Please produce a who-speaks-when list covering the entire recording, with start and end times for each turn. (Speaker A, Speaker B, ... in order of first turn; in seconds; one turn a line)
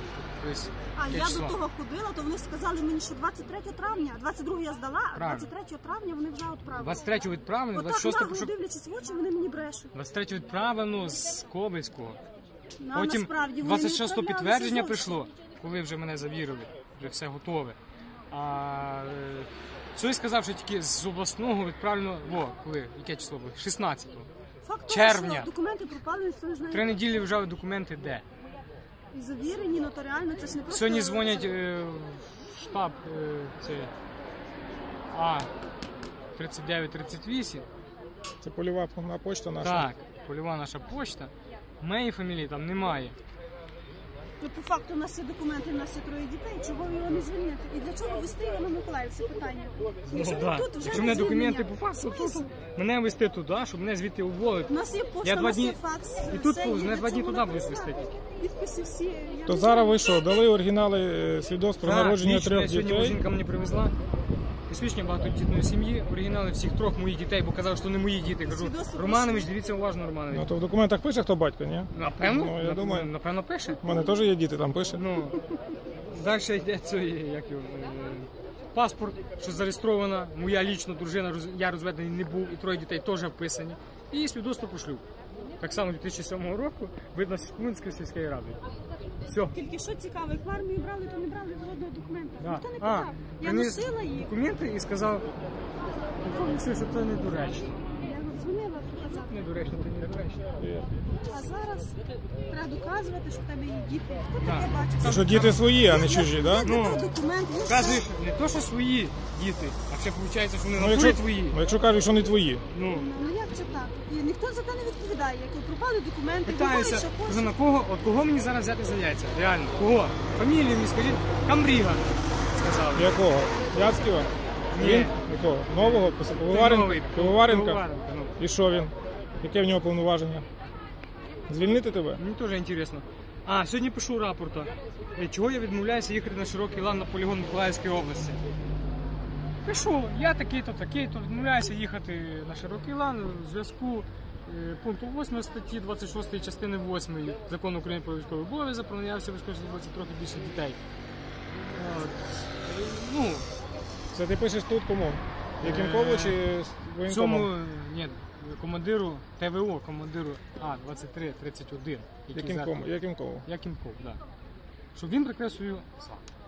Speaker A: 0.4-1.6
Speaker B: 0.9-7.0
Speaker A: 5.1-5.5
Speaker A: 6.8-8.5
Speaker B: 7.7-9.9
Speaker A: 9.9-12.2
Speaker B: 12.8-15.2
Speaker A: 12.9-17.8
Speaker A: 18.3-24.3
Speaker B: 24.6-26.9
Speaker A: 24.9-25.5
Speaker A: 26.7-28.2
Speaker B: 29.1-31.5
Speaker A: 30.7-33.9
Speaker A: 35.1-35.5
Speaker A: 36.4-37.7
Speaker C: 38.4-39.9
Speaker A: 39.6-43.2
Speaker B: 44.4-52.5
Speaker A: 50.0-58.1
Speaker B: 54.7-60.5
Speaker C: 59.5-63.2
Speaker A: 61.8-64.0
Speaker A: 64.7-70.5
Speaker B: 68.4-69.5
Speaker C: 70.3-73.1
Speaker A: 71.9-73.8
Speaker C: 73.8-75.0
Speaker A: 74.9-75.4
Speaker A: 76.1-85.0
Speaker A: 85.6-88.6
Speaker A: 89.3-89.6
Speaker B: 89.5-94.3
Speaker A: 92.4-95.3
Speaker A: 96.2-97.8
Speaker B: 98.0-99.3
Speaker A: 99.1-100.4
Speaker C: 100.6-100.9
Speaker B: 101.2-102.0
Speaker B: 102.5-108.0
Speaker A: 104.4-105.7
Speaker C: 105.0-106.8
Speaker A: 106.6-107.1
Speaker A: 107.6-111.6
Speaker C: 110.7-112.7
Speaker A: 112.7-113.1
Speaker B: 112.9-117.5
Speaker A: 116.5-123.2
Speaker C: 122.9-130.5
Speaker A: 124.7-125.2
Speaker A: 125.8-128.4
Speaker C: 131.5-132.2
Speaker A: 132.1-138.4
Speaker A: 139.6-150.8
Speaker A: 151.7-153.5
Speaker C: 154.1-157.5
Speaker A: 155.6-156.4
Speaker A: 157.1-162.9
Speaker C: 162.3-163.5
Speaker A: 163.4-164.2
Speaker A: 164.9-166.2